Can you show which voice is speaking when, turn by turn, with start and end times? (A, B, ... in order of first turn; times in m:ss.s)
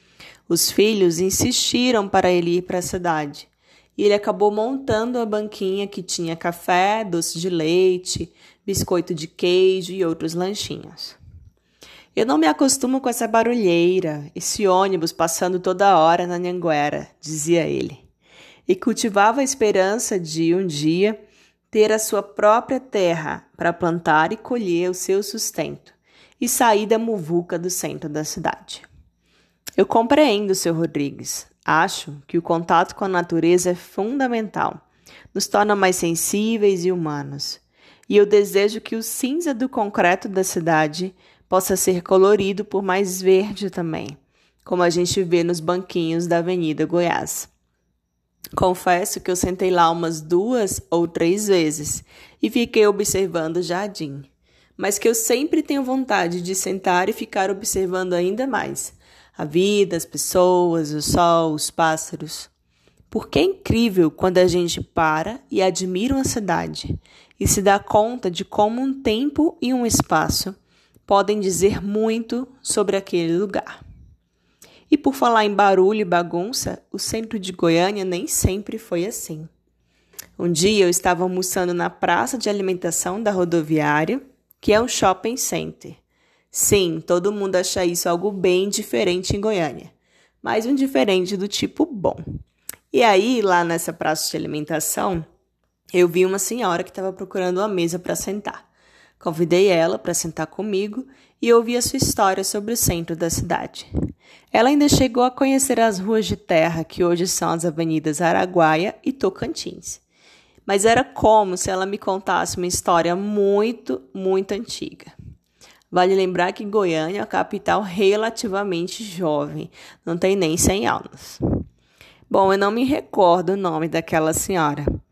0:00.5-0:11.2 A
0:12.1-0:18.0 A
0:18.7-0:21.2 A
0:21.7-0:28.8 A
0:29.8-0:47.5 A
0:48.5-1:02.5 A
1:03.1-1:13.8 A
1:14.9-1:19.5 A
1:20.4-1:26.0 A
1:26.5-1:32.2 A
1:32.9-1:35.2 A
1:35.9-1:38.7 A
1:39.2-1:43.9 A
1:44.5-1:50.0 A
1:50.6-1:55.1 A
1:55.9-2:01.4 A
2:02.3-2:04.9 A